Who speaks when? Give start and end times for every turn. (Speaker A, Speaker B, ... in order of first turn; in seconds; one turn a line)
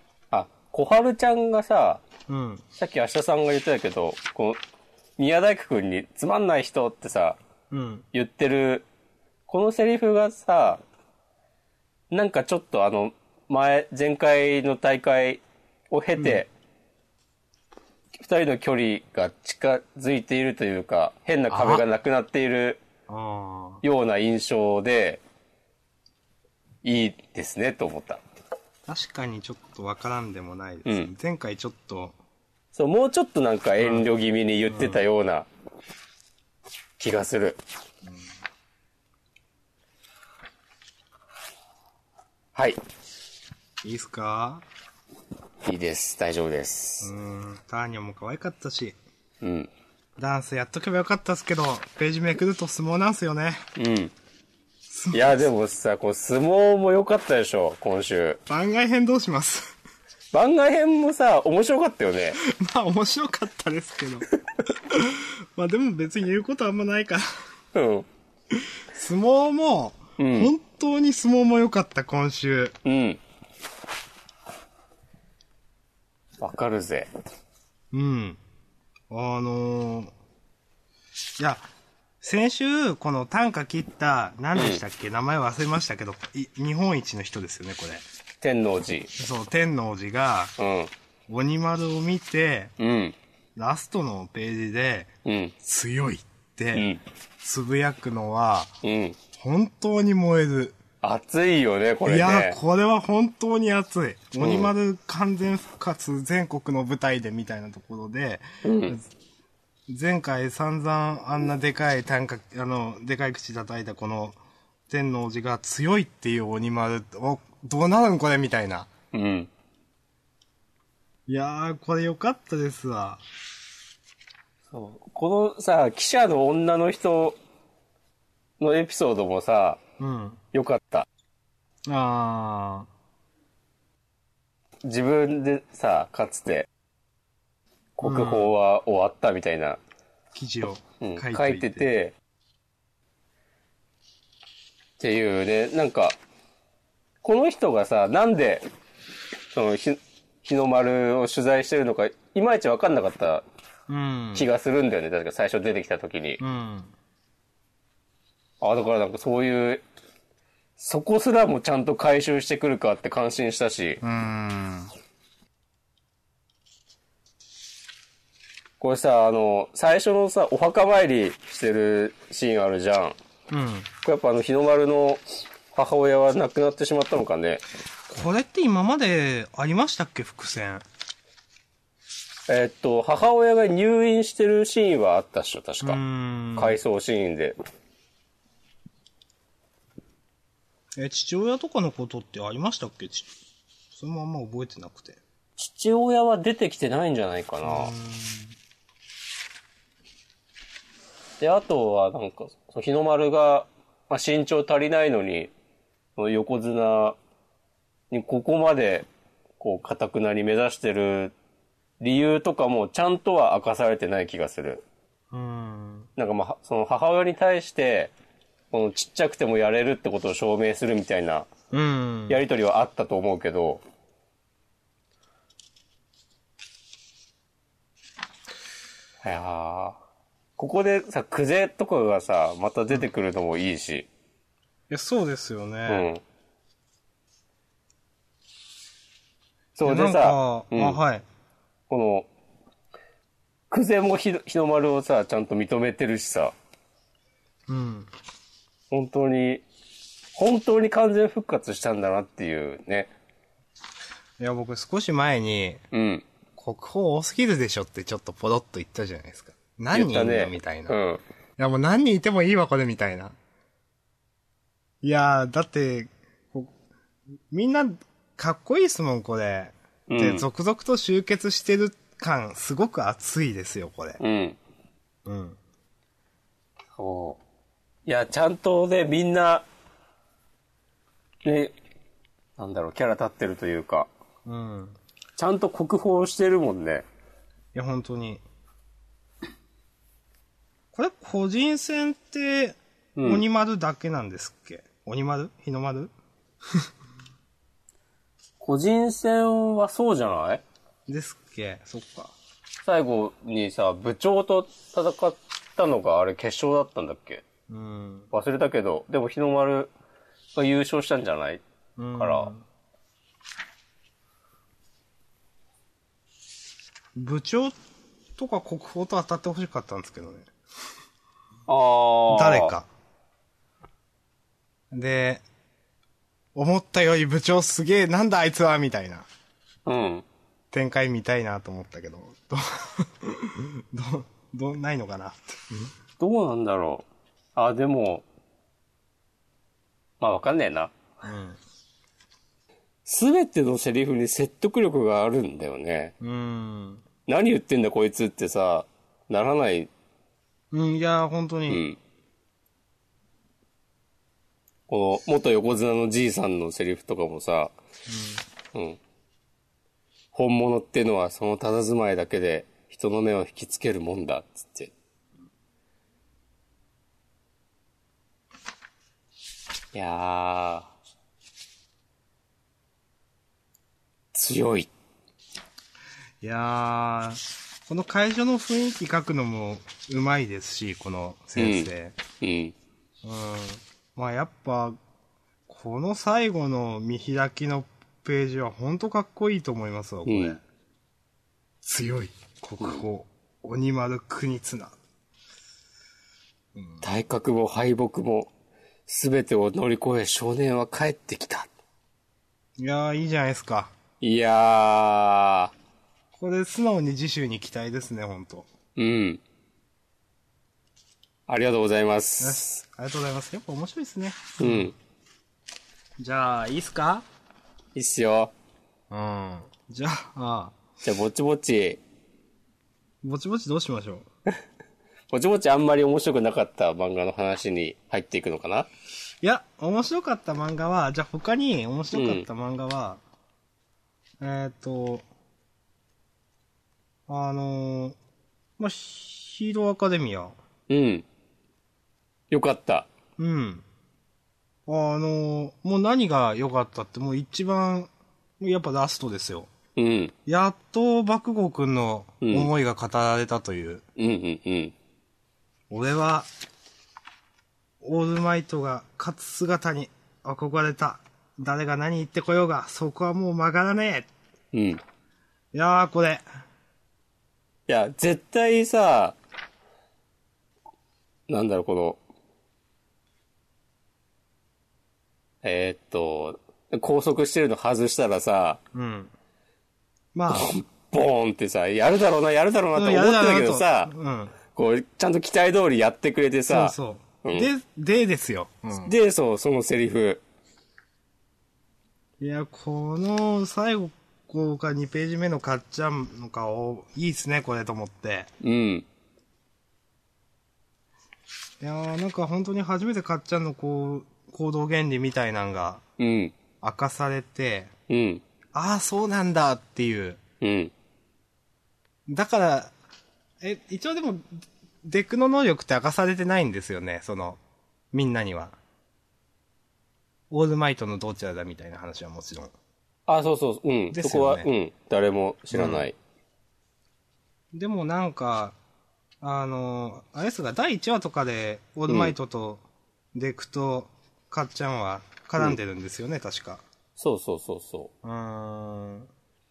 Speaker A: 0.3-2.0
Speaker B: 2.3-2.6
Speaker A: 2.8-4.6
Speaker A: 5.2-7.4
Speaker B: 7.7-8.1
Speaker A: 8.1-8.9
Speaker A: 9.5-10.8
Speaker A: 12.1-16.5
Speaker A: 18.2-22.8
Speaker B: 21.5-21.8
Speaker B: 23.1-23.8
Speaker A: 23.8-25.2
Speaker A: 26.8-28.2
Speaker B: 28.9-32.2
Speaker A: 32.7-35.5
Speaker B: 33.8-34.1
Speaker B: 34.7-35.0
Speaker A: 37.0-37.6
Speaker A: 42.5-42.8
Speaker B: 43.8-44.6
Speaker A: 45.6-47.1
Speaker B: 47.0-49.0
Speaker A: 49.4-49.7
Speaker B: 50.2-53.6
Speaker A: 53.8-54.1
Speaker B: 54.9-55.5
Speaker A: 55.1-58.4
Speaker B: 58.5-59.7
Speaker A: 60.3-62.4
Speaker B: 62.4-64.3
Speaker B: 64.9-67.2
Speaker A: 67.7-68.1
Speaker B: 68.5-72.8
Speaker A: 70.2-70.5
Speaker A: 72.8-73.2
Speaker A: 76.4-77.1
Speaker B: 77.9-78.4
Speaker B: 79.1-80.1
Speaker B: 81.4-81.6
Speaker B: 82.2-88.0
Speaker A: 84.5-84.8
Speaker A: 88.4-89.1
Speaker B: 89.2-90.5
Speaker A: 90.6-90.9
Speaker B: 91.3-92.7
Speaker A: 92.8-93.2
Speaker B: 93.6-95.1
Speaker A: 95.2-95.5
Speaker B: 95.6-96.9
Speaker A: 96.8-97.0
Speaker B: 97.4-98.7
Speaker A: 98.8-99.2
Speaker B: 99.3-100.8
Speaker A: 101.0-102.6
Speaker B: 102.1-109.0
Speaker A: 104.4-104.7
Speaker A: 108.6-109.0
Speaker B: 109.9-114.4
Speaker B: 114.9-118.9
Speaker A: 119.1-119.5
Speaker B: 121.3-123.2
Speaker A: 124.7-127.4
Speaker A: 128.6-129.8
Speaker B: 130.0-130.4
Speaker A: 130.5-131.1
Speaker B: 131.9-132.9
Speaker A: 134.8-136.7
Speaker A: 138.0-139.8
Speaker B: 138.0-138.5
Speaker B: 140.3-141.9
Speaker A: 141.0-142.1
Speaker A: 145.0-146.2
Speaker A: 147.2-148.6
Speaker A: 149.5-153.4
Speaker B: 153.9-154.5
Speaker A: 154.3-156.4
Speaker B: 156.4-156.9
Speaker A: 158.6-159.8
Speaker A: 160.8-164.0
Speaker B: 164.0-164.9
Speaker A: 168.8-173.2
Speaker B: 173.5-173.9
Speaker A: 174.0-177.6
Speaker B: 178.1-180.8
Speaker A: 182.5-186.0
Speaker B: 185.8-186.8
Speaker A: 186.6-187.6
Speaker B: 191.0-193.3
Speaker B: 193.9-195.2
Speaker A: 195.6-197.9
Speaker B: 197.6-198.6
Speaker A: 201.4-205.5
Speaker A: 206.2-207.2
Speaker A: 208.1-209.1
Speaker A: 209.6-211.3
Speaker A: 212.0-214.8
Speaker B: 215.3-216.1
Speaker A: 216.2-218.1
Speaker A: 218.7-221.5
Speaker B: 221.7-222.4
Speaker A: 222.3-223.8
Speaker A: 229.2-230.0
Speaker A: 230.6-234.1
Speaker B: 234.9-236.1
Speaker A: 235.9-236.2
Speaker A: 239.8-241.0
Speaker B: 239.8-241.2
Speaker A: 241.9-242.3
Speaker A: 243.7-246.5
Speaker B: 247.7-248.1
Speaker A: 248.9-249.7
Speaker A: 250.4-253.1
Speaker B: 254.4-255.8
Speaker A: 255.9-256.2
Speaker B: 256.6-261.0
Speaker A: 259.9-261.2
Speaker B: 261.6-263.4
Speaker B: 265.0-266.7
Speaker B: 267.5-274.2
Speaker A: 270.1-270.5
Speaker A: 274.2-274.6
Speaker B: 275.3-275.6
Speaker A: 277.0-277.4
Speaker A: 278.1-279.7
Speaker A: 281.4-281.8
Speaker A: 282.6-284.1
Speaker B: 284.5-285.0
Speaker A: 285.4-287.1
Speaker B: 287.7-288.4
Speaker B: 290.9-296.1
Speaker A: 293.2-293.4
Speaker A: 298.6-300.6
Speaker B: 301.1-302.4
Speaker A: 302.9-307.4
Speaker B: 307.7-308.3
Speaker A: 308.3-309.9
Speaker A: 310.6-311.6
Speaker B: 312.0-312.6
Speaker A: 312.2-312.5
Speaker B: 317.2-317.8
Speaker B: 318.4-320.5
Speaker A: 321.7-322.7
Speaker B: 322.3-322.9
Speaker B: 324.9-325.4
Speaker B: 326.6-329.3
Speaker A: 329.9-330.3
Speaker B: 330.7-335.9
Speaker A: 336.2-338.2
Speaker A: 340.2-340.9
Speaker B: 341.2-341.6
Speaker A: 343.1-346.1
Speaker B: 346.2-347.0
Speaker A: 347.3-349.9
Speaker B: 350.7-351.8
Speaker A: 351.7-352.0
Speaker A: 354.9-357.7
Speaker B: 358.1-358.4
Speaker A: 358.7-359.0
Speaker A: 360.3-364.9
Speaker A: 369.9-370.9
Speaker A: 374.3-374.9
Speaker B: 376.4-382.2
Speaker A: 381.6-382.8
Speaker B: 383.2-385.0
Speaker B: 385.7-390.6
Speaker A: 390.3-390.6
Speaker B: 391.8-395.0
Speaker B: 396.8-397.0
Speaker A: 397.0-398.5
Speaker A: 399.1-401.7
Speaker B: 402.8-403.9
Speaker A: 404.2-405.7
Speaker B: 406.4-408.7
Speaker A: 409.0-409.4
Speaker A: 411.5-412.8
Speaker B: 412.4-414.9
Speaker A: 414.6-414.9
Speaker B: 416.2-417.2
Speaker A: 417.9-418.5
Speaker B: 419.1-420.8
Speaker A: 421.0-422.0
Speaker B: 423.2-424.3
Speaker A: 425.3-428.9
Speaker B: 429.4-433.2
Speaker A: 432.1-432.5
Speaker B: 434.4-435.2
Speaker B: 437.3-438.2
Speaker B: 438.8-440.6
Speaker A: 440.9-441.3
Speaker A: 442.5-443.1
Speaker B: 443.4-443.9
Speaker B: 444.9-449.7
Speaker A: 450.0-450.3
Speaker B: 450.5-454.0
Speaker A: 452.4-452.7
Speaker A: 454.2-454.9
Speaker B: 455.9-456.5
Speaker B: 458.0-464.3
Speaker A: 464.7-465.0
Speaker B: 465.7-466.4
Speaker A: 467.9-469.4
Speaker A: 471.5-472.2
Speaker A: 475.6-478.8
Speaker B: 478.9-479.3
Speaker B: 480.3-480.7
Speaker A: 480.5-484.1
Speaker B: 482.9-484.6
Speaker A: 484.7-487.7
Speaker B: 486.7-489.1
Speaker A: 488.9-490.4
Speaker B: 492.4-498.5
Speaker A: 498.6-499.1
Speaker B: 501.8-506.0
Speaker A: 506.2-506.6
Speaker B: 506.8-507.9
Speaker A: 508.1-508.4
Speaker B: 508.7-510.4
Speaker A: 510.6-510.9
Speaker B: 512.3-512.9
Speaker B: 513.6-517.6
Speaker B: 518.1-518.8
Speaker B: 520.5-522.7
Speaker A: 523.3-526.2
Speaker B: 524.1-524.7
Speaker B: 525.7-526.1
Speaker B: 527.7-528.8
Speaker B: 529.4-536.8
Speaker A: 532.1-532.4
Speaker A: 537.2-538.1
Speaker B: 538.2-539.3